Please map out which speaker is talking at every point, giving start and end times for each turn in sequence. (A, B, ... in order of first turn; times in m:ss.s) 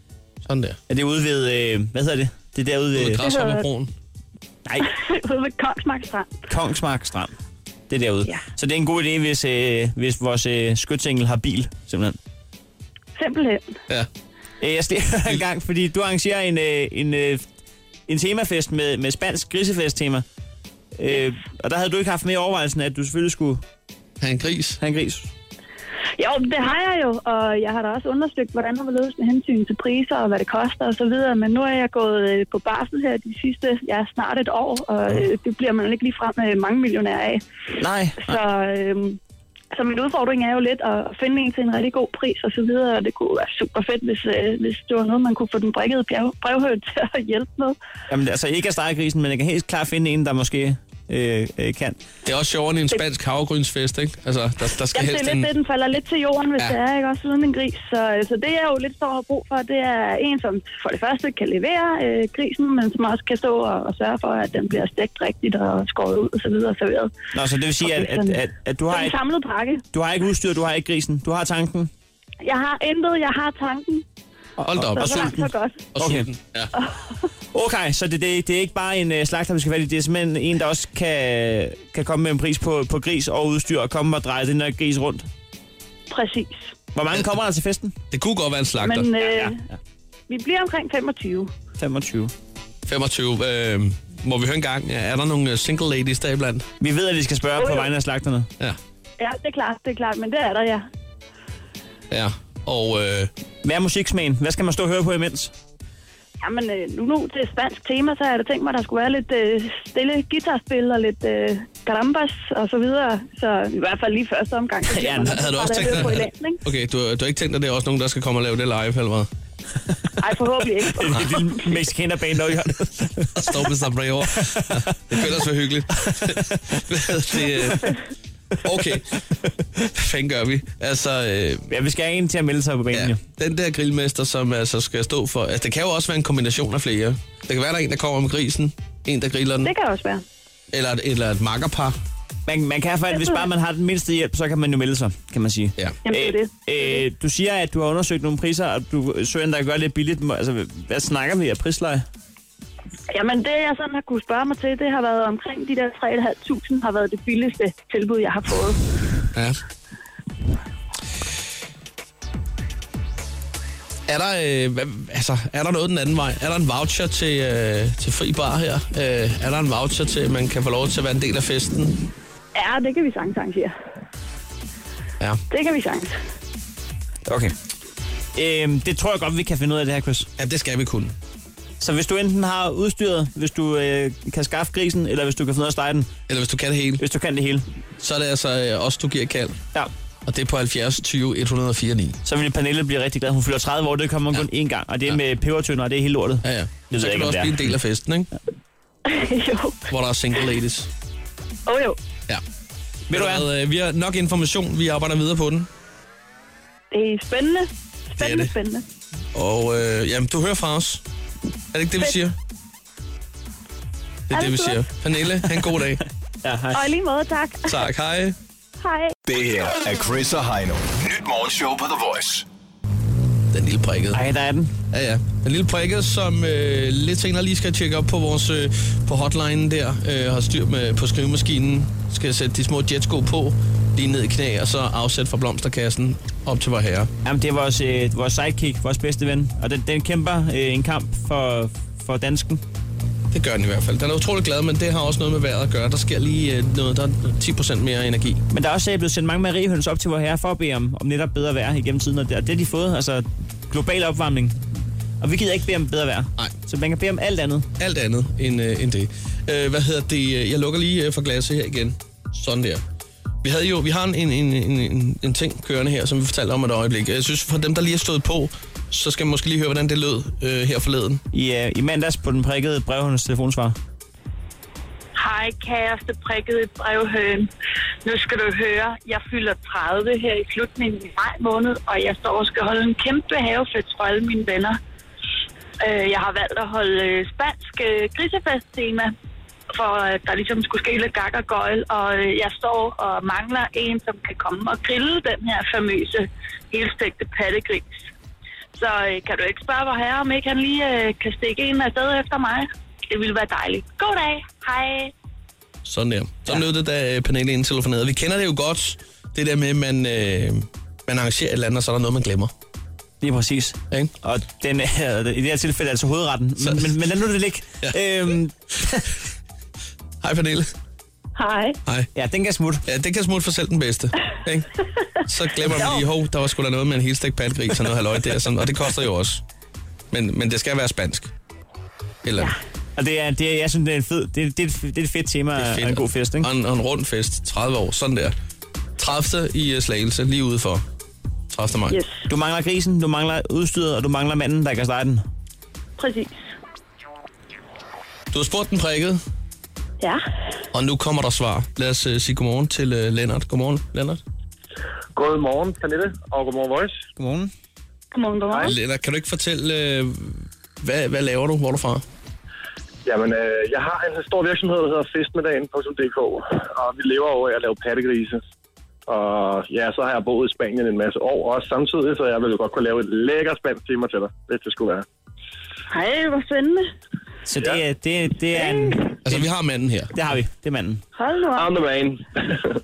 0:00.4-0:00.8 A
0:00.9-0:03.2 B
0:02.9-0:03.9 A
0:03.2-0:03.6 C
0:04.7-0:04.9 B
0:04.8-0:06.4 C
0:06.5-0:07.3 B
0:07.9-0:12.2 B
0:13.2-0:13.7 C
0:14.6-0:17.5 B
0:18.1-0:20.2 B
0:20.9-0:23.6 B
0:24.2-0:24.8 A
0:24.8-0:25.3 B
0:26.2-0:37.4 C
0:37.8-0:38.4 B
0:38.2-0:39.2 C
0:39.7-0:47.8 C
0:48.1-0:52.0 B
0:52.2-0:55.5 A
0:54.9-1:07.1 C
1:07.3-1:09.1 B
1:07.8-1:09.8 C
1:09.9-1:11.9 B
1:12.4-1:14.0 C
1:14.6-1:16.7 A
1:14.8-1:15.4 B
1:14.8-1:15.9 C
1:16.0-1:16.3 B
1:16.7-1:17.2 C
1:17.5-1:25.3 B
1:26.1-1:26.7 C
1:26.9-1:27.9 B
1:28.1-1:29.1 A
1:28.8-1:29.6 C
1:29.2-1:29.7 B
1:30.3-1:31.5 C
1:31.8-1:32.3 B
1:32.9-1:36.7 A
1:36.8-1:38.5 B
1:39.2-1:40.9 C
1:42.1-1:43.3 A
1:43.6-1:45.5 B
1:46.4-1:56.6 C
1:54.9-1:56.1 B
1:55.2-1:59.3 A
2:00.2-2:01.4 C
2:00.8-2:03.7 B
2:03.4-2:08.0 A
2:04.3-2:05.2 B
2:06.0-2:06.8 B
2:08.6-2:09.2 A
2:09.8-2:11.7 A
2:11.7-2:13.2 B
2:12.9-2:19.7 A
2:19.6-2:20.2 C
2:20.7-2:22.0 A
2:22.5-2:32.0 B
2:23.1-2:23.4 C
2:26.0-2:27.0 C
2:33.1-2:38.8 C
2:39.3-2:39.6 A
2:44.1-2:52.0 A
2:52.5-2:53.8 C
2:55.5-2:56.2 C
2:57.3-2:57.5 B
2:58.4-3:00.3 B
3:00.4-3:01.1 A
3:01.8-3:06.1 B
3:06.3-3:07.0 A
3:07.0-3:07.7 B
3:08.0-3:09.6 A
3:10.2-3:12.2 A
3:12.2-3:17.7 B
3:16.4-3:18.3 A
3:19.1-3:19.8 C
3:19.9-3:20.9 A
3:21.6-3:22.0 C
3:23.1-3:23.5 B
3:23.1-3:25.7 A
3:26.9-3:28.8 C
3:28.2-3:28.5 A
3:29.3-3:31.0 A
3:31.7-3:32.3 A
3:34.3-3:36.0 A
3:34.3-3:34.8 C
3:36.4-3:36.9 B
3:36.7-3:37.9 C
3:37.7-3:38.4 A
3:38.8-3:39.1 C
3:39.2-3:42.4 D
3:43.5-3:44.2 A
3:44.1-3:44.7 B
3:44.9-3:57.1 A
3:57.2-4:02.6 B
4:03.3-4:08.4 A
4:08.5-4:17.7 B
4:17.8-4:22.8 A
4:23.4-4:31.2 A
4:31.3-4:33.8 B
4:35.2-4:37.5 C
4:38.0-4:44.8 C
4:45.8-4:49.1 C
4:49.7-4:57.9 C
4:58.7-5:05.1 C
5:05.8-5:12.5 A
5:13.2-5:19.0 B
5:16.6-5:17.0 A
5:17.8-5:18.4 A
5:20.2-5:20.7 A
5:21.4-5:21.8 C
5:21.8-5:22.1 A
5:22.1-5:22.8 B
5:22.8-5:24.7 A
5:25.2-5:29.4 A
5:25.7-5:26.0 C
5:30.1-5:31.3 A
5:32.2-5:32.5 A
5:33.0-5:36.5 B
5:35.6-5:38.3 A
5:39.0-5:40.8 A
5:41.5-5:42.0 A
5:41.9-5:42.2 C
5:42.3-5:45.2 B
5:46.0-5:46.3 C
5:48.3-5:49.2 A
5:50.7-5:54.2 A
5:55.1-5:57.0 E
5:57.2-5:57.5 B
5:58.1-5:58.8 C
5:58.6-6:02.0 A
6:03.0-6:08.4 E
6:09.1-6:15.0 E
6:15.9-6:16.8 C
6:17.4-6:19.5 B
6:18.6-6:19.0 C
6:19.2-6:20.1 A
6:20.1-6:21.0 B
6:21.1-6:21.8 C
6:21.6-6:22.6 E